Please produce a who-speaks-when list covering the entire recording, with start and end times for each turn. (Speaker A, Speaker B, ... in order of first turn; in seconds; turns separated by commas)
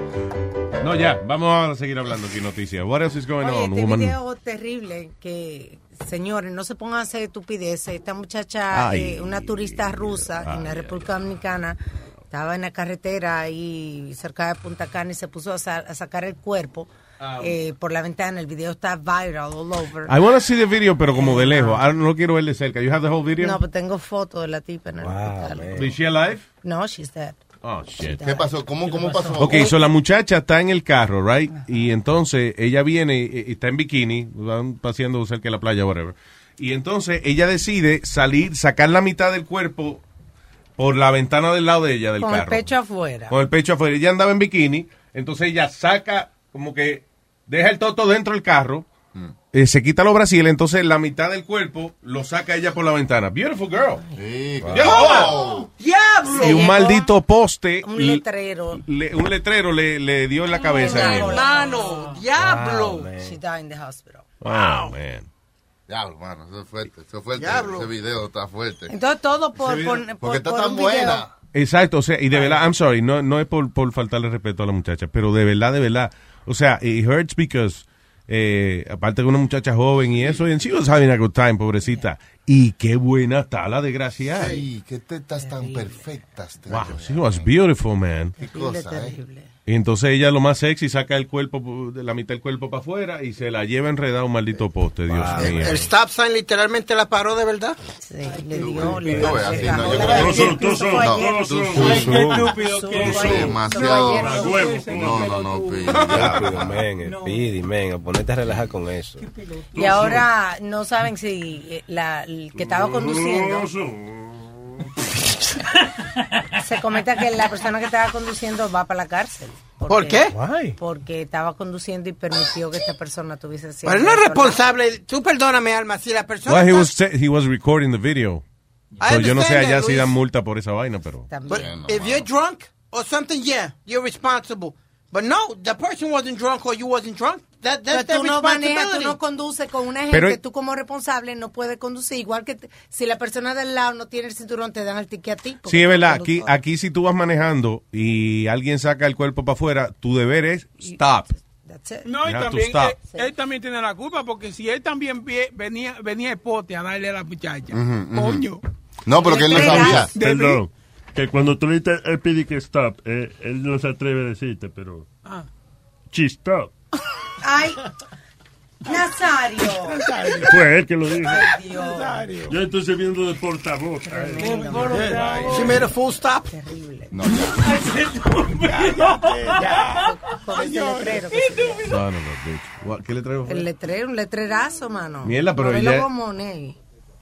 Speaker A: 0.8-4.2, Speaker B: 3.4-11.8, Speaker A: 8.7-11.1, Speaker B: 12.3-20.1, Speaker A: 17.2-17.6, Speaker A: 20.1-23.6, Speaker B: 21.2-21.8, Speaker B: 23.4-25.8, Speaker C: 25.0-25.9, Speaker A: 25.8-26.4, Speaker B: 26.6-27.4, Speaker A: 27.6-28.2, Speaker B: 28.0-29.7, Speaker D: 28.2-29.7, Speaker A: 29.4-40.0, Speaker A: 40.8-42.7, Speaker B: 42.2-43.3, Speaker A: 43.3-48.9, Speaker A: 49.5-54.0, Speaker D: 54.1-55.7, Speaker C: 54.6-55.0, Speaker A: 54.7-55.4, Speaker E: 55.8-56.7, Speaker B: 56.3-57.1, Speaker A: 56.4-58.2, Speaker B: 57.8-58.8, Speaker A: 58.7-61.5, Speaker B: 60.6-62.1, Speaker E: 60.8-63.1, Speaker C: 62.4-63.4, Speaker B: 63.2-64.3, Speaker A: 64.4-65.3, Speaker D: 65.9-68.9, Speaker E: 67.4-67.9, Speaker B: 68.9-71.3, Speaker D: 69.6-71.3, Speaker A: 71.5-84.6, Speaker D: 80.1-80.5, Speaker D: 84.3-87.5, Speaker B: 85.4-86.0, Speaker A: 86.7-88.4, Speaker D: 88.4-89.2, Speaker B: 88.4-89.5, Speaker A: 89.7-95.9, Speaker C: 95.1-95.6, Speaker E: 95.3-97.8, Speaker B: 98.0-104.8, Speaker D: 98.5-102.2, Speaker C: 98.9-99.9, Speaker F: 100.0-102.2, Speaker G: 101.8-106.2, Speaker C: 101.8-102.6, Speaker D: 103.0-106.8, Speaker F: 103.8-105.4, Speaker C: 106.0-109.2, Speaker G: 109.2-109.6, Speaker F: 109.7-110.3, Speaker B: 109.8-113.7, Speaker F: 112.6-114.8, Speaker B: 116.6-124.6, Speaker E: 119.9-120.4, Speaker C: 120.3-120.8, Speaker E: 123.8-126.9, Speaker A: 126.5-128.4, Speaker E: 129.0-130.1, Speaker A: 129.0-131.3, Speaker B: 131.3-131.7, Speaker D: 131.5-132.3, Speaker E: 131.5-139.2, Speaker B: 137.9-146.6, Speaker A: 140.1-140.4, Speaker A: 145.7-151.3, Speaker B: 151.6-152.1, Speaker G: 152.0-158.6, Speaker A: 152.2-153.0, Speaker B: 153.0-153.3, Speaker D: 157.7-158.5, Speaker D: 159.1-160.1, Speaker B: 159.2-160.1, Speaker G: 159.5-160.6, Speaker F: 160.2-165.1, Speaker F: 166.1-166.7, Speaker B: 167.4-167.8, Speaker B: 168.8-170.0, Speaker G: 170.1-170.5, Speaker F: 170.4-171.5, Speaker B: 171.2-172.3, Speaker C: 172.0-172.5, Speaker F: 172.5-174.5, Speaker B: 174.1-175.7, Speaker G: 174.4-175.8, Speaker C: 174.9-175.6, Speaker E: 175.5-176.5, Speaker B: 176.5-177.1, Speaker D: 177.1-177.6, Speaker G: 177.7-180.0, Speaker C: 178.7-179.8, Speaker B: 179.9-181.8, Speaker G: 180.6-181.9, Speaker C: 180.7-181.2, Speaker A: 181.8-183.7, Speaker B: 183.5-186.8, Speaker A: 185.2-186.1